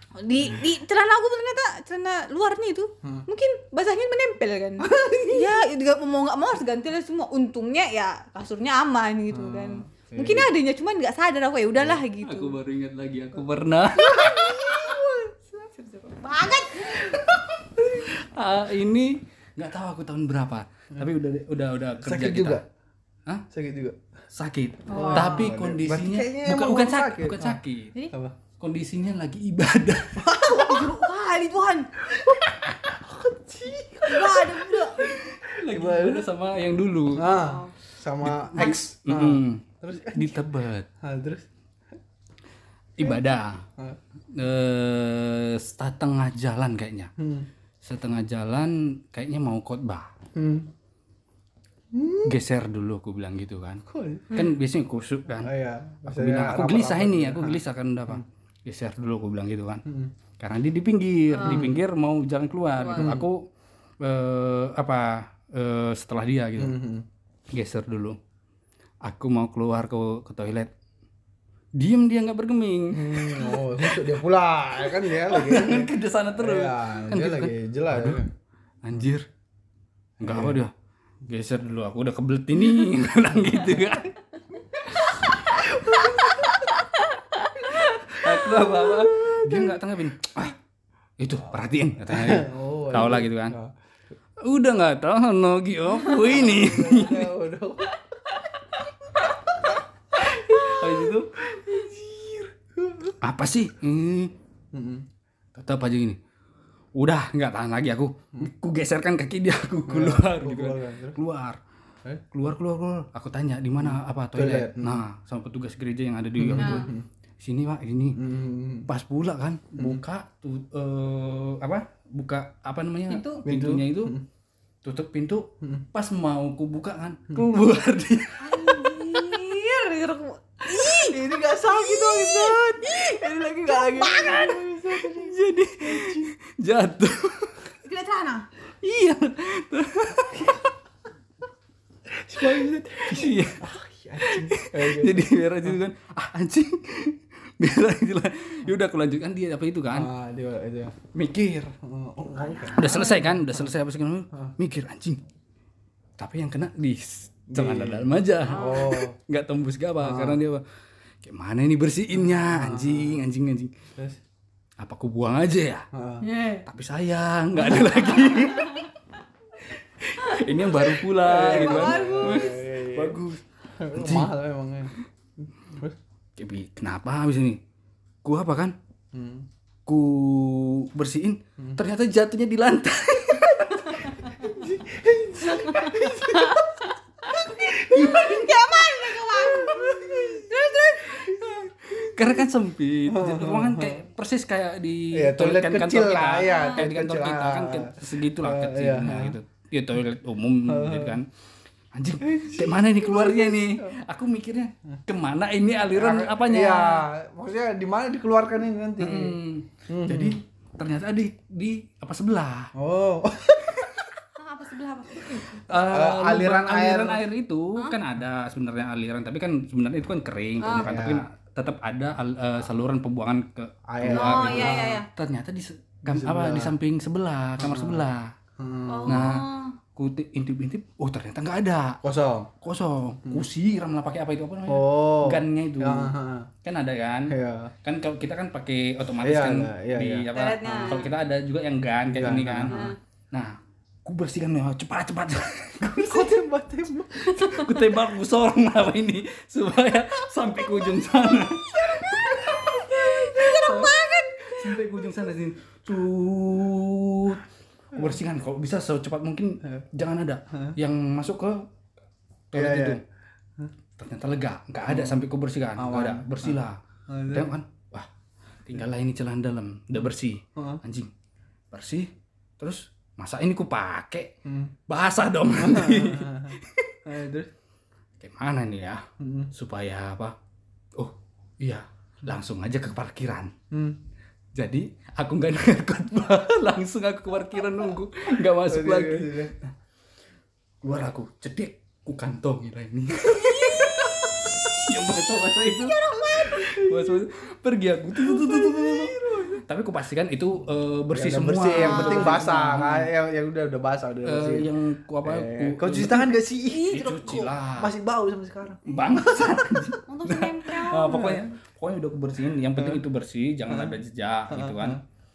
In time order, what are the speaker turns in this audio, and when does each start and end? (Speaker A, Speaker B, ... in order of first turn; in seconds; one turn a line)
Speaker A: 0.2-12.6
Speaker B: 4.8-5.5
Speaker B: 9.3-10.5
Speaker C: 12.2-14.3
Speaker B: 14.0-15.7
Speaker A: 14.1-15.0
Speaker A: 15.8-17.2
Speaker B: 16.8-18.1
Speaker C: 18.1-22.6
Speaker B: 22.0-22.6
Speaker B: 23.5-24.0
Speaker C: 24.3-27.9
Speaker A: 24.9-25.5
Speaker B: 24.9-27.6
Speaker B: 28.1-28.4
Speaker C: 28.6-30.3
Speaker B: 30.2-31.0
Speaker A: 30.3-31.9
Speaker B: 32.1-36.3
Speaker A: 34.1-35.0
Speaker C: 35.0-37.3
Speaker B: 37.1-40.4
Speaker A: 37.3-37.7
Speaker C: 38.2-40.9
Speaker B: 41.0-41.5
Speaker C: 43.0-43.6
Speaker C: 44.3-47.1
Speaker B: 47.2-47.5
Speaker C: 47.8-50.1
Speaker B: 50.4-50.7
Speaker B: 51.9-52.4
Speaker C: 52.2-55.5
Speaker B: 53.9-54.4
Speaker B: 55.4-58.2
Speaker C: 56.1-59.9
Speaker B: 59.9-60.1
Speaker C: 60.4-63.5
Speaker A: 61.4-61.7
Speaker B: 61.4-61.8
Speaker A: 62.8-63.2
Speaker B: 63.0-63.3
Speaker C: 64.0-66.8
Speaker B: 66.6-67.1
Speaker C: 67.5-68.2
Speaker C: 69.0-70.7
Speaker C: 71.8-74.1
Speaker B: 72.9-78.3
Speaker C: 74.8-78.2
Speaker C: 78.8-79.3
Speaker B: 80.2-80.6
Speaker C: 80.2-80.7
Speaker C: 81.3-84.2
Speaker B: 85.5-86.7
Speaker A: 86.9-88.0
Speaker B: 87.6-89.8
Speaker C: 88.1-90.6
Speaker C: 91.2-93.6
Speaker B: 92.1-93.8
Speaker C: 94.4-97.3
Speaker B: 96.1-98.0
Speaker B: 98.7-103.2
Speaker C: 100.3-101.3
Speaker C: 103.2-104.3
Speaker B: 104.7-105.1
Speaker C: 105.5-106.2
Speaker C: 107.0-111.6
Speaker B: 109.9-111.2
Speaker C: 112.3-118.2
Speaker B: 113.8-115.0
Speaker B: 116.4-117.0
Speaker A: 116.6-116.9
Speaker B: 118.2-118.9
Speaker C: 118.9-124.2
Speaker B: 119.8-120.0
Speaker A: 123.1-123.5
Speaker B: 123.5-124.2
Speaker C: 124.8-128.7
Speaker A: 128.4-131.2
Speaker B: 130.9-136.3
Speaker A: 131.8-134.4
Speaker C: 133.9-137.6
Speaker A: 137.8-138.5
Speaker C: 138.8-140.6
Speaker B: 140.3-140.7
Speaker B: 142.1-145.8
Speaker C: 142.4-150.1
Speaker B: 149.9-151.0
Speaker C: 151.1-151.7
Speaker B: 151.8-153.7
Speaker A: 152.6-153.2
Speaker C: 152.8-155.2
Speaker C: 156.2-160.6
Speaker B: 157.5-159.2
Speaker A: 158.5-159.0
Speaker B: 160.0-160.4
Speaker C: 161.2-163.7
Speaker B: 162.1-163.2
Speaker C: 164.8-165.9
Speaker B: 165.9-166.3
Speaker A: 166.2-166.7
Speaker C: 166.6-168.8
Speaker B: 167.6-168.7
Speaker A: 168.5-168.9
Speaker C: 170.0-173.4
Speaker B: 171.1-176.0
Speaker A: 171.3-172.7
Speaker C: 173.9-174.3
Speaker C: 176.4-177.6
Speaker C: 178.2-178.8
Speaker B: 179.1-179.5
Speaker C: 179.9-184.3
Speaker B: 184.3-192.2
Speaker A: 185.5-191.4
Speaker C: 191.3-201.3
Speaker B: 193.1-194.1
Speaker B: 195.1-199.4
Speaker A: 196.4-196.8
Speaker B: 200.7-201.2
Speaker C: 201.9-207.1
Speaker B: 202.2-204.0
Speaker B: 205.9-210.4
Speaker C: 209.0-212.7
Speaker B: 212.8-214.0
Speaker A: 214.4-215.6
Speaker C: 215.7-228.3
Speaker B: 215.8-217.2
Speaker A: 220.6-220.9
Speaker B: 220.7-221.2
Speaker B: 223.9-225.0
Speaker A: 224.1-225.1
Speaker B: 226.1-226.7
Speaker B: 227.6-228.1
Speaker B: 228.6-229.3
Speaker A: 228.9-229.8
Speaker C: 229.1-229.4
Speaker C: 229.9-232.0
Speaker B: 232.0-232.5
Speaker C: 232.6-246.4
Speaker B: 234.7-236.5
Speaker B: 237.3-237.7
Speaker B: 239.2-241.0
Speaker A: 240.3-241.1
Speaker B: 242.1-242.9
Speaker A: 242.7-243.0
Speaker B: 245.8-247.4
Speaker C: 247.2-261.7
Speaker B: 251.9-253.3
Speaker A: 252.7-254.5
Speaker B: 254.6-254.8
Speaker B: 260.5-260.8
Speaker C: 262.5-263.0
Speaker B: 262.5-263.0
Speaker C: 264.0-266.8
Speaker B: 264.9-265.2
Speaker B: 265.8-267.5
Speaker C: 267.3-268.1
Speaker C: 268.6-271.1
Speaker B: 270.6-270.8
Speaker C: 271.7-274.3
Speaker B: 274.4-274.8
Speaker C: 274.9-277.0
Speaker B: 275.6-277.5
Speaker C: 278.2-280.4
Speaker B: 279.2-279.5
Speaker C: 281.0-283.5
Speaker B: 283.7-284.0
Speaker C: 284.6-289.7
Speaker B: 288.7-289.5
Speaker C: 290.8-303.1
Speaker B: 293.2-294.9
Speaker A: 295.8-296.8
Speaker B: 296.3-297.2
Speaker B: 298.1-299.6
Speaker B: 301.1-304.7
Speaker A: 301.8-302.4
Speaker C: 304.2-307.9
Speaker B: 305.2-308.9
Speaker A: 306.7-307.1
Speaker C: 308.9-315.0
Speaker A: 310.1-311.4
Speaker B: 311.1-311.4
Speaker B: 313.7-314.0
Speaker B: 314.5-315.0